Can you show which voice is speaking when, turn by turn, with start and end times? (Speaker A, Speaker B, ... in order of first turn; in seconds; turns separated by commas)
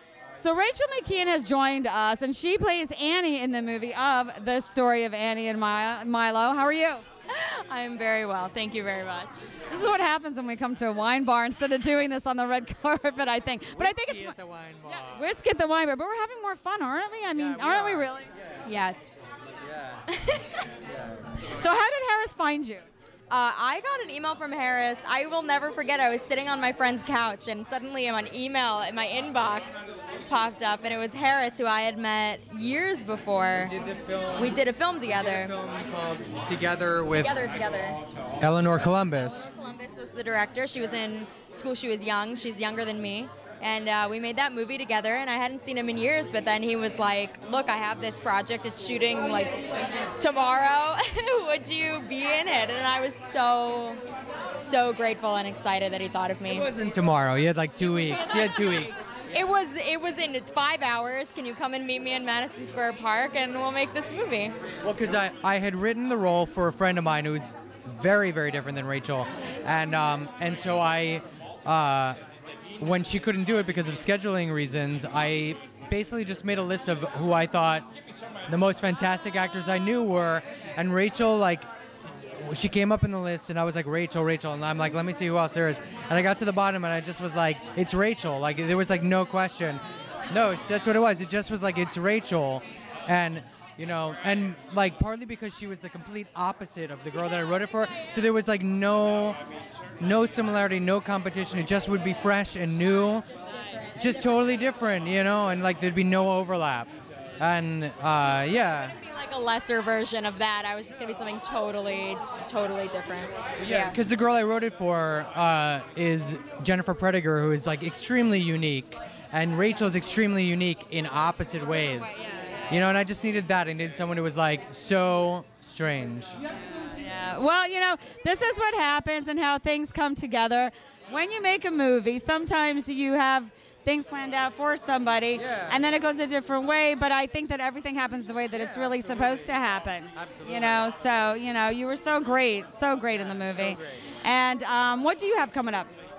Speaker A: 0.4-7.0, Speaker B: 7.3-9.5, Speaker A: 9.7-18.3, Speaker C: 13.7-15.3, Speaker C: 17.3-18.7, Speaker B: 18.6-19.1, Speaker C: 19.6-20.0, Speaker B: 20.1-20.7, Speaker C: 20.8-21.2, Speaker A: 21.5-22.9, Speaker B: 23.3-33.8, Speaker C: 33.6-37.5, Speaker B: 34.4-35.5, Speaker B: 37.1-38.0, Speaker C: 38.4-39.5, Speaker B: 39.2-49.6, Speaker B: 50.2-54.0, Speaker B: 54.5-56.7, Speaker C: 56.5-59.0, Speaker B: 58.2-64.6, Speaker C: 64.8-72.2, Speaker C: 72.8-77.9, Speaker C: 78.5-81.7, Speaker C: 82.3-99.4, Speaker C: 100.0-103.2, Speaker C: 104.0-109.0, Speaker B: 108.9-114.0, Speaker C: 113.6-122.2, Speaker C: 122.7-126.4, Speaker A: 127.0-145.9, Speaker C: 135.3-135.8, Speaker C: 138.5-139.6, Speaker C: 140.2-140.8, Speaker C: 143.5-144.0